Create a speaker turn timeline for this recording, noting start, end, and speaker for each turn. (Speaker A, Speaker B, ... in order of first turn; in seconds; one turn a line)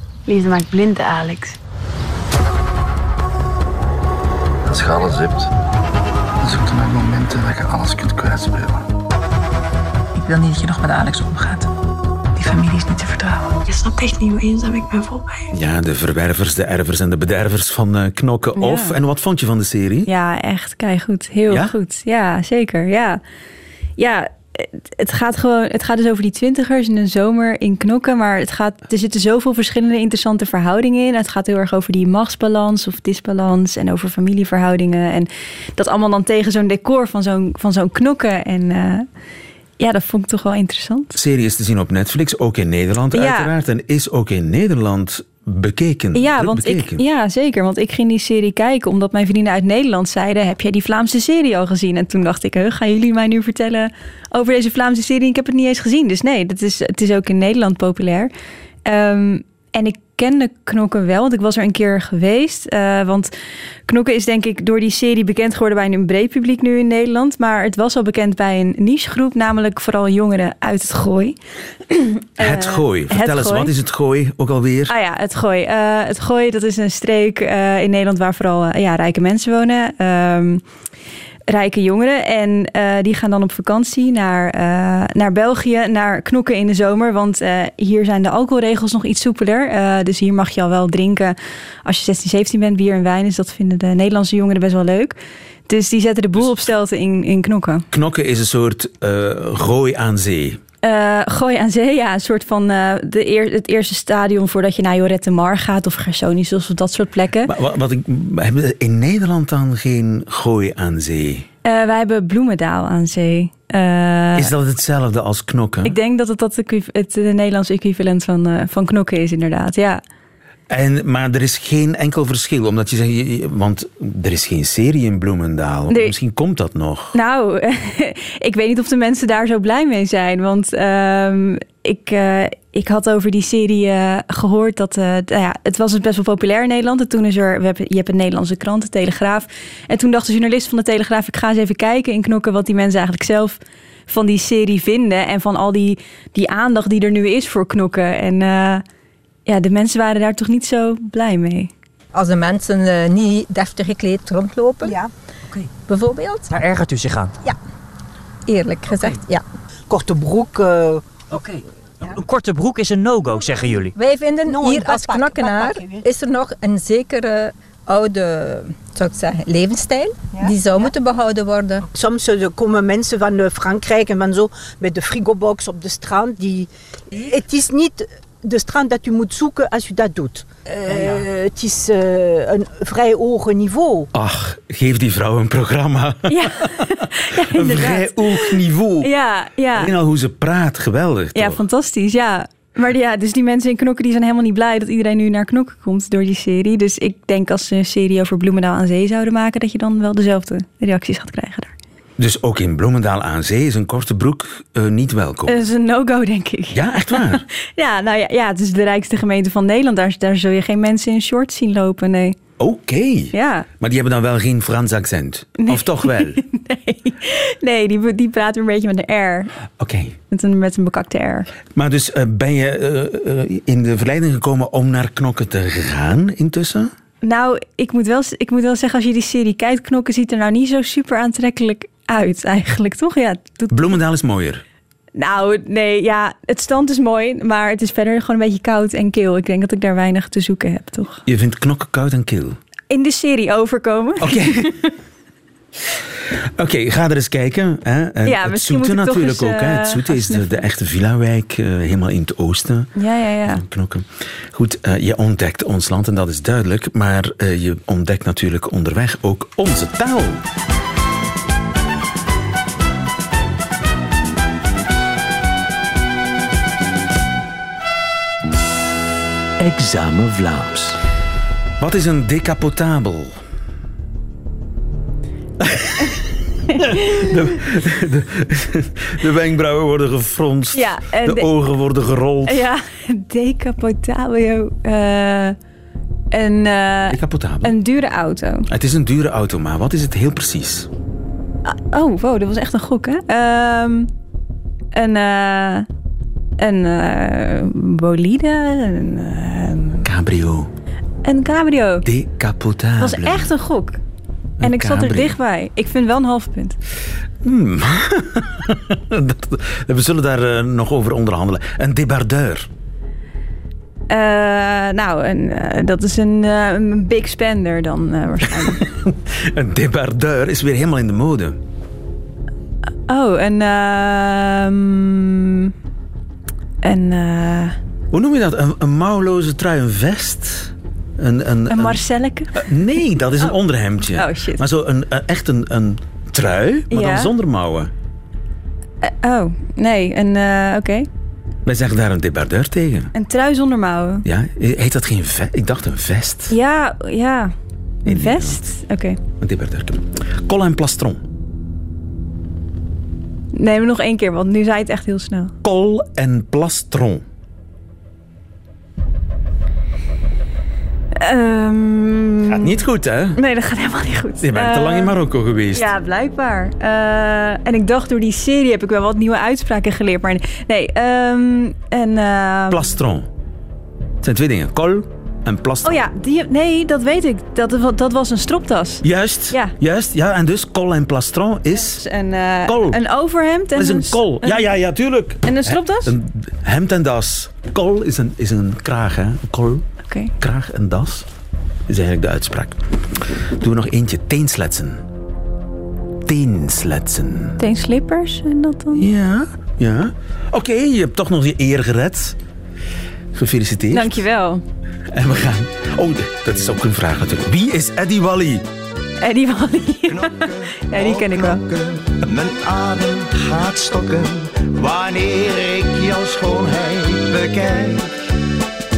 Speaker A: 0.2-1.6
Speaker B: 4.7-5.3
Speaker B: 6.5-8.6
Speaker A: 10.2-11.7
Speaker A: 12.3-15.5
Speaker C: 15.5-20.1
Speaker D: 18.6-18.9
Speaker D: 20.1-23.2
Speaker D: 24.0-39.0
Speaker D: 39.8-41.1
Speaker C: 41.1-47.0
Speaker D: 43.1-43.5
Speaker D: 46.1-58.3
Speaker D: 58.8-63.3
Speaker D: 63.9-71.4
Speaker D: 71.9-73.7
Speaker C: 72.4-74.9
Speaker D: 74.9-80.6
Speaker D: 81.5-95.2
Speaker D: 95.7-97.8
Speaker C: 97.9-100.6
Speaker D: 100.8-107.5
Speaker C: 107.5-111.5
Speaker D: 111.6-114.5
Speaker C: 114.3-116.0
Speaker D: 115.8-120.0
Speaker C: 120.7-127.1
Speaker D: 127.1-148.8
Speaker D: 149.5-151.7
Speaker E: 152.1-155.0
Speaker E: 155.8-156.5
Speaker F: 156.5-157.3
Speaker E: 158.5-159.4
Speaker G: 159.9-161.1
Speaker F: 162.1-163.9
Speaker E: 163.9-171.8
Speaker G: 164.4-166.0
Speaker G: 170.4-170.9
Speaker G: 171.9-184.1
Speaker C: 184.1-189.1
Speaker D: 186.3-189.9
Speaker C: 189.7-191.6
Speaker D: 191.3-201.7
Speaker C: 202.2-205.6
Speaker D: 205.5-212.3
Speaker C: 206.7-207.4
Speaker C: 212.6-216.4
Speaker D: 213.3-213.7
Speaker D: 215.6-219.5
Speaker C: 219.8-220.1
Speaker D: 220.3-221.5
Speaker C: 221.8-226.9
Speaker D: 227.2-233.9
Speaker C: 233.7-234.6
Speaker D: 235.2-241.2
Speaker C: 241.2-242.6
Speaker D: 242.9-244.9
Speaker C: 244.2-244.7
Speaker C: 246.6-252.9
Speaker D: 248.2-250.6
Speaker D: 252.9-253.6
Speaker C: 253.5-260.4
Speaker B: 269.6-271.0
Speaker C: 271.8-273.4
Speaker C: 275.6-276.2
Speaker C: 276.8-282.6
Speaker D: 280.7-281.5
Speaker D: 282.5-285.6
Speaker D: 286.3-288.7
Speaker C: 287.1-287.8
Speaker C: 288.7-290.9
Speaker D: 291.6-294.1
Speaker D: 294.9-295.9
Speaker D: 296.6-300.1
Speaker C: 300.0-300.7
Speaker D: 301.2-302.1
Speaker C: 302.0-303.5
Speaker D: 303.0-304.0
Speaker C: 304.6-305.4
Speaker D: 304.6-306.8
Speaker C: 307.4-312.7
Speaker D: 314.1-318.8
Speaker C: 318.8-321.6
Speaker D: 323.1-325.7
Speaker D: 326.8-327.8
Speaker C: 328.1-332.0
Speaker D: 331.7-332.6
Speaker C: 332.5-337.9
Speaker D: 334.1-334.6
Speaker D: 336.9-337.3
Speaker D: 339.0-341.1
Speaker C: 341.6-343.1
Speaker D: 343.1-344.2
Speaker C: 344.2-346.5
Speaker D: 346.5-347.5
Speaker C: 348.0-348.6
Speaker D: 348.1-349.2
Speaker C: 349.4-351.2
Speaker D: 353.5-355.5
Speaker C: 355.6-357.2
Speaker D: 361.1-362.7
Speaker C: 362.5-363.4
Speaker D: 363.4-365.1
Speaker C: 364.4-365.9
Speaker D: 365.7-372.8
Speaker C: 372.7-373.3
Speaker C: 374.2-376.0
Speaker D: 375.8-379.7
Speaker C: 379.0-382.0
Speaker D: 381.9-384.6
Speaker C: 382.6-383.0
Speaker C: 383.8-389.8
Speaker D: 385.4-386.1
Speaker C: 390.4-391.2
Speaker C: 391.9-395.0
Speaker C: 396.2-397.6
Speaker D: 397.6-399.0
Speaker C: 398.9-402.4
Speaker C: 403.3-404.2
Speaker D: 403.9-404.6
Speaker C: 405.1-408.7
Speaker D: 409.2-411.6
Speaker H: 410.1-418.1